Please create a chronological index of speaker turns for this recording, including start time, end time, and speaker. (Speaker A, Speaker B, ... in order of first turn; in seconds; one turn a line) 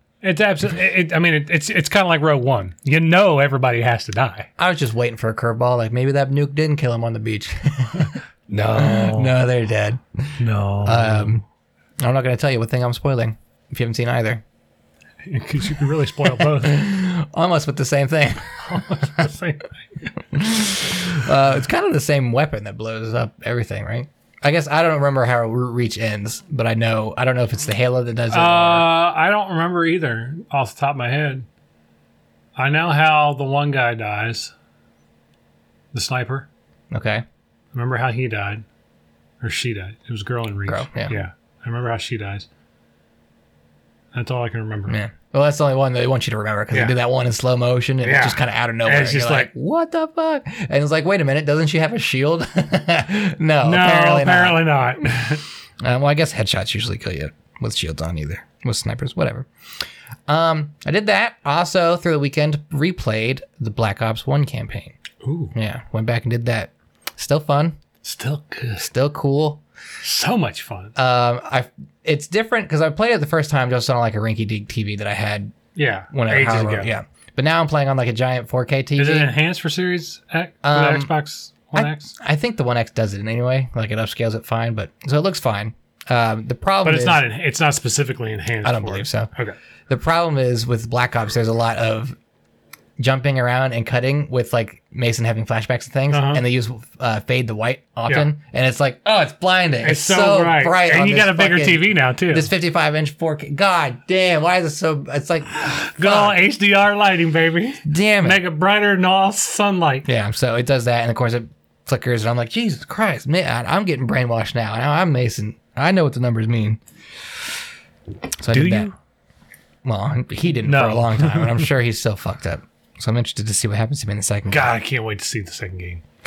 Speaker A: 0.2-4.5
Speaker B: 4.6-8.1
Speaker A: 8.0-9.4
Speaker B: 8.7-11.4
Speaker A: 10.4-11.4
Speaker B: 12.0-14.4
Speaker A: 15.2-16.8
Speaker B: 16.4-19.3
Speaker A: 18.6-19.8
Speaker B: 20.2-28.9
Speaker A: 28.3-31.5
Speaker A: 32.5-34.5
Speaker A: 35.9-36.5
Speaker B: 36.9-37.2
Speaker A: 37.7-38.6
Speaker A: 39.4-42.5
Speaker B: 40.7-41.1
Speaker A: 44.1-45.0
Speaker B: 44.9-54.6
Speaker A: 48.0-49.5
Speaker A: 53.6-55.4
Speaker B: 55.8-59.5
Speaker B: 60.3-65.0
Speaker A: 65.2-65.5
Speaker B: 65.5-67.8
Speaker A: 68.0-68.9
Speaker B: 68.8-69.6
Speaker A: 70.0-70.9
Speaker B: 71.0-75.5
Speaker A: 75.7-76.9
Speaker B: 76.1-79.3
Speaker A: 79.0-82.1
Speaker B: 80.6-81.1
Speaker B: 81.7-87.2
Speaker A: 86.8-89.6
Speaker B: 88.6-89.3
Speaker B: 89.9-92.1
Speaker B: 93.0-106.4
Speaker A: 96.1-96.4
Speaker A: 99.8-102.5
Speaker A: 105.6-110.0
Speaker B: 107.8-108.4
Speaker B: 110.0-116.8
Speaker B: 118.4-118.9
Speaker A: 118.5-118.9
Speaker B: 119.8-124.7
Speaker A: 120.6-121.7
Speaker A: 124.5-126.0